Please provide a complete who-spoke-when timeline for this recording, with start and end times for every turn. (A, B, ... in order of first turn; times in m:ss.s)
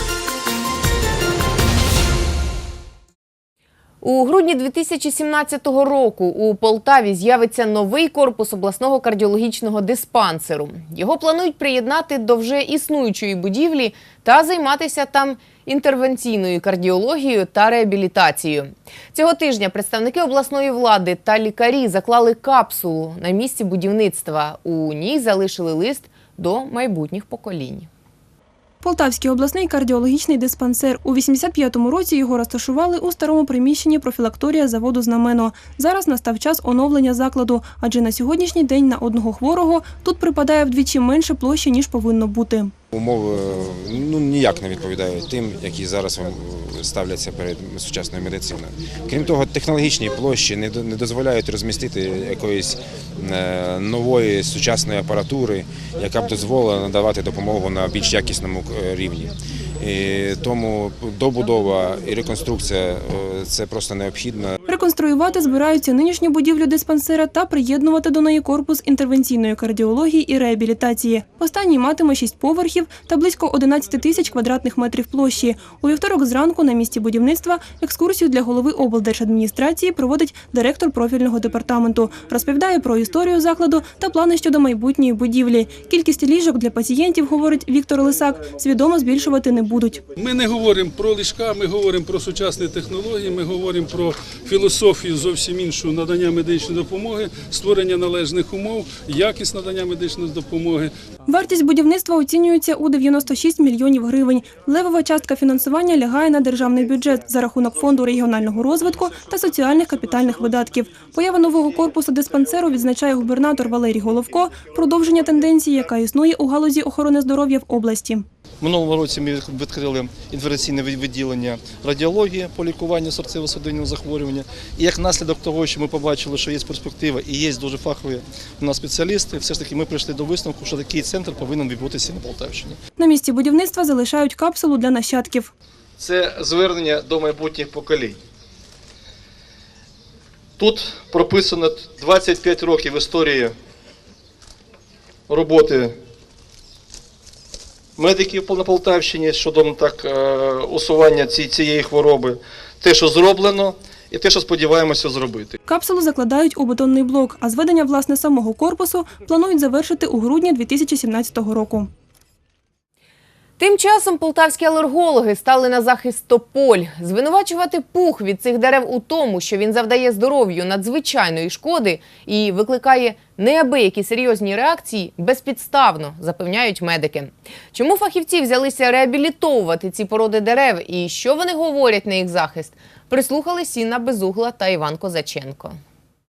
0:04.0-0:27.9 A
0:28.8-0:42.7 B
0:42.9-1:04.6 C
1:04.7-1:30.0 B
1:30.2-1:32.3 D
1:33.0-1:33.6 D
1:36.1-1:37.3 D
1:39.5-1:39.9 D
1:41.3-1:58.2 B
1:58.6-2:12.8 E
2:13.0-2:15.5 B
2:16.0-2:18.2 E
2:20.6-2:23.5 E
2:25.3-2:25.9 E
2:28.0-2:35.6 E
2:35.7-2:41.9 B
2:43.6-3:05.8 A